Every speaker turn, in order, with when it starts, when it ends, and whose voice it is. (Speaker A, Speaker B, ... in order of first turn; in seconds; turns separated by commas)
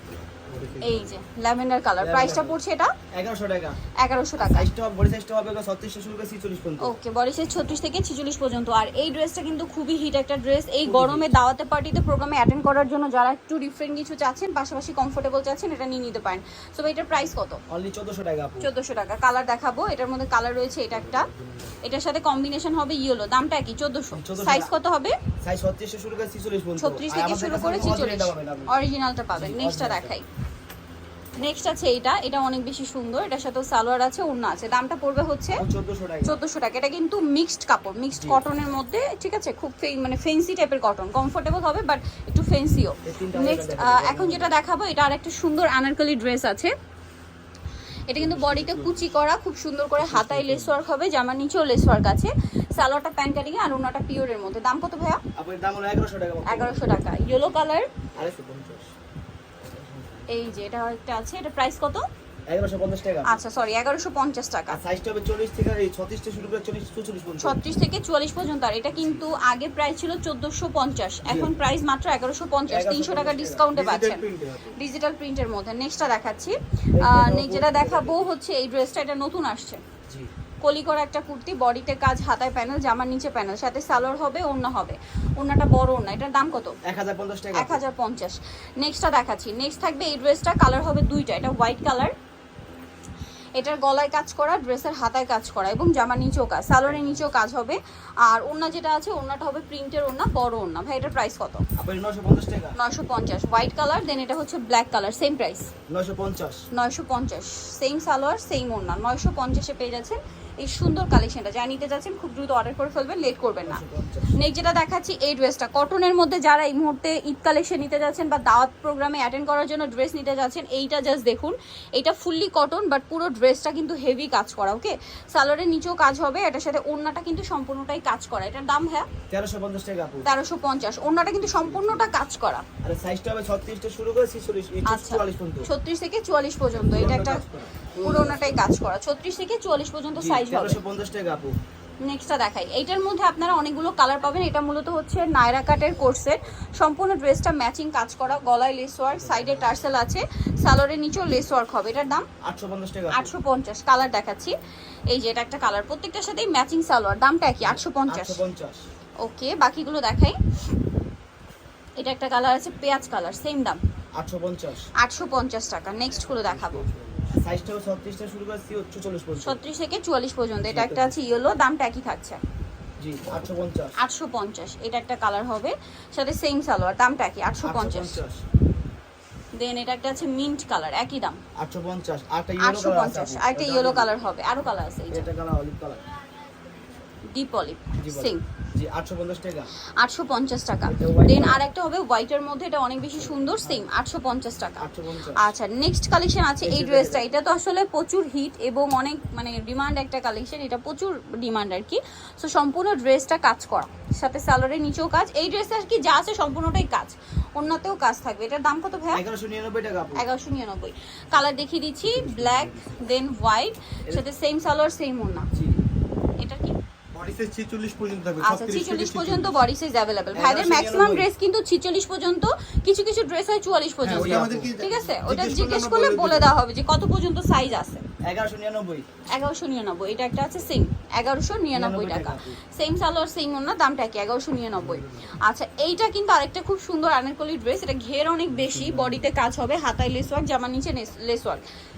Speaker A: 0.5-1.1, Speaker B: 0.8-2.9, Speaker C: 2.0-2.6, Speaker C: 3.1-3.8, Speaker B: 4.0-4.7, Speaker C: 4.4-7.0, Speaker B: 6.8-17.6, Speaker C: 10.8-11.3, Speaker C: 17.7-18.7, Speaker B: 18.6-21.3, Speaker C: 21.0-21.8, Speaker B: 21.8-25.1, Speaker C: 24.1-24.8, Speaker C: 25.4-28.8, Speaker B: 26.8-30.2, Speaker C: 29.3-30.2, Speaker B: 31.4-35.6, Speaker C: 35.6-36.4, Speaker B: 36.2-46.7, Speaker C: 38.1-38.4, Speaker C: 43.0-44.5, Speaker B: 48.1-55.2, Speaker A: 48.2-49.1, Speaker A: 50.0-50.8, Speaker C: 55.4-57.3, Speaker B: 56.5-57.9, Speaker C: 58.1-58.9, Speaker C: 59.6-60.3, Speaker B: 60.3-62.0, Speaker C: 62.5-63.4, Speaker B: 63.2-64.8, Speaker C: 64.7-67.6, Speaker B: 67.4-79.8, Speaker C: 71.2-71.5, Speaker C: 72.7-73.7, Speaker A: 73.7-74.8, Speaker C: 76.9-78.3, Speaker B: 80.6-86.8, Speaker C: 86.8-87.8, Speaker B: 87.5-92.1, Speaker B: 93.6-101.6, Speaker C: 96.8-97.3, Speaker C: 101.8-102.8, Speaker B: 102.8-105.7, Speaker C: 105.9-106.7, Speaker B: 106.7-113.8, Speaker C: 113.6-114.4, Speaker B: 114.3-129.1, Speaker C: 129.3-130.3, Speaker B: 130.2-132.6, Speaker A: 131.3-132.1, Speaker C: 132.8-135.7, Speaker B: 134.8-137.4, Speaker C: 136.8-138.6, Speaker A: 138.0-138.5, Speaker B: 138.0-140.8, Speaker C: 140.1-141.5, Speaker B: 142.0-152.2, Speaker C: 149.1-149.9, Speaker C: 152.4-153.3, Speaker B: 153.1-154.5, Speaker B: 155.1-158.4, Speaker C: 157.6-158.8, Speaker B: 159.2-160.4, Speaker B: 162.0-163.8, Speaker C: 164.2-164.9, Speaker B: 165.0-166.9, Speaker A: 166.2-167.3, Speaker C: 167.3-169.6, Speaker B: 169.4-172.4, Speaker C: 170.6-171.2, Speaker C: 173.0-174.0, Speaker B: 174.0-178.2, Speaker C: 177.6-178.4, Speaker B: 179.5-181.4, Speaker C: 181.6-184.2, Speaker B: 182.6-185.3, Speaker C: 185.1-186.0, Speaker B: 187.2-188.4, Speaker C: 188.0-189.7, Speaker B: 190.0-209.2, Speaker C: 190.8-191.6, Speaker C: 193.2-193.8, Speaker C: 194.8-195.5, Speaker C: 196.6-197.4, Speaker C: 209.1-210.2, Speaker B: 210.2-215.5, Speaker A: 212.0-213.0, Speaker C: 215.5-215.8, Speaker B: 216.4-216.8, Speaker A: 217.1-219.6, Speaker B: 218.4-228.0, Speaker C: 220.3-221.3, Speaker A: 224.0-226.5, Speaker C: 224.0-226.4, Speaker C: 228.2-229.0, Speaker B: 229.3-241.6, Speaker C: 231.7-232.6, Speaker A: 234.8-235.3, Speaker A: 238.5-239.3